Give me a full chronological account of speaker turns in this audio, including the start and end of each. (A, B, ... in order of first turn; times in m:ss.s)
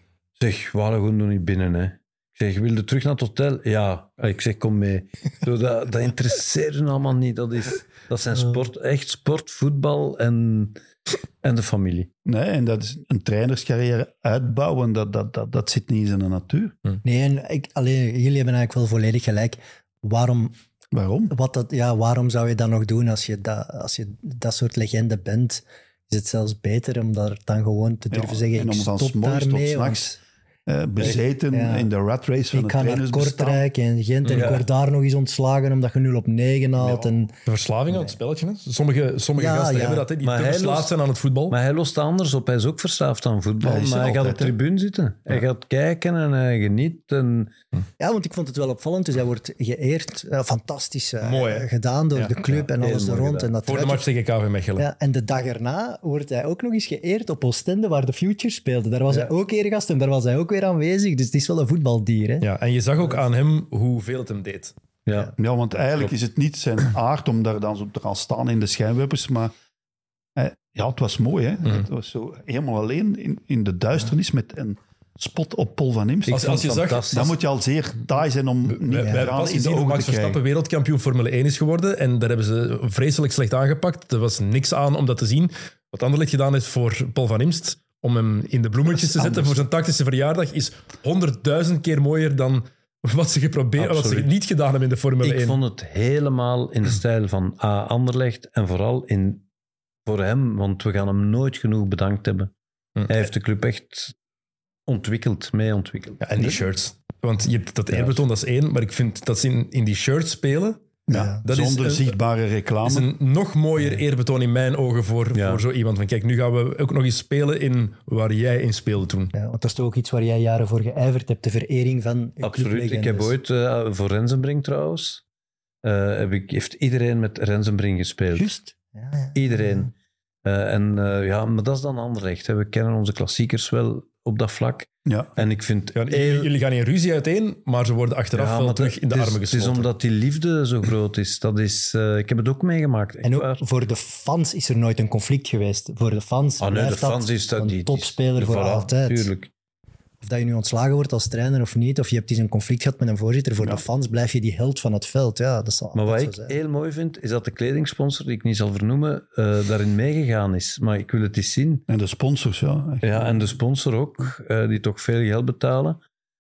0:00.4-0:10.8 A
0:11.4-0:12.1 A
0:12.2-0:16.7 B
0:17.0-0:20.5 C
0:20.9-0:21.3 B
0:21.3-0:30.2 C
0:28.1-0:30.2 B
0:30.7-0:33.6 B
0:31.0-0:31.9 C
0:32.5-0:37.3 C
0:34.2-0:34.6 D
0:34.3-0:34.6 A
0:37.4-0:41.6 D
0:39.4-0:40.1 C
0:40.2-0:41.0 A
0:41.5-0:47.5 A
0:43.6-0:44.6 B
0:48.0-0:54.1 C
0:51.2-0:52.3 D
0:52.2-0:53.5 A
0:53.6-0:54.9 D
0:54.8-1:02.5 C
1:02.4-1:04.7 D
1:05.1-1:05.3 A
1:05.4-1:09.5 B
1:10.4-1:20.4 B
1:16.3-1:17.4 A
1:16.3-1:17.2 D
1:18.7-1:35.6 D
1:33.8-1:34.3 A
1:35.2-1:39.4 A
1:40.1-1:42.5 A
1:43.0-1:43.3 D
1:43.1-1:44.1 A
1:44.9-1:46.4 A
1:46.2-1:52.2 D
1:47.9-1:48.2 A
1:51.1-1:53.1 B
1:51.1-1:51.4 C
1:52.8-1:59.3 D
1:55.3-1:55.6 A
1:59.3-2:03.3 C
2:02.4-2:05.2 A
2:05.8-2:08.5 A
2:08.4-2:09.9 C
2:09.3-2:09.9 A
2:10.4-2:16.5 A
2:15.1-2:15.3 B
2:15.9-2:19.9 D
2:18.4-2:23.6 A
2:23.2-2:29.3 C
2:26.6-2:29.5 A
2:30.2-2:36.6 C
2:35.9-2:41.8 A
2:41.9-2:43.4 B
2:43.0-2:46.0 A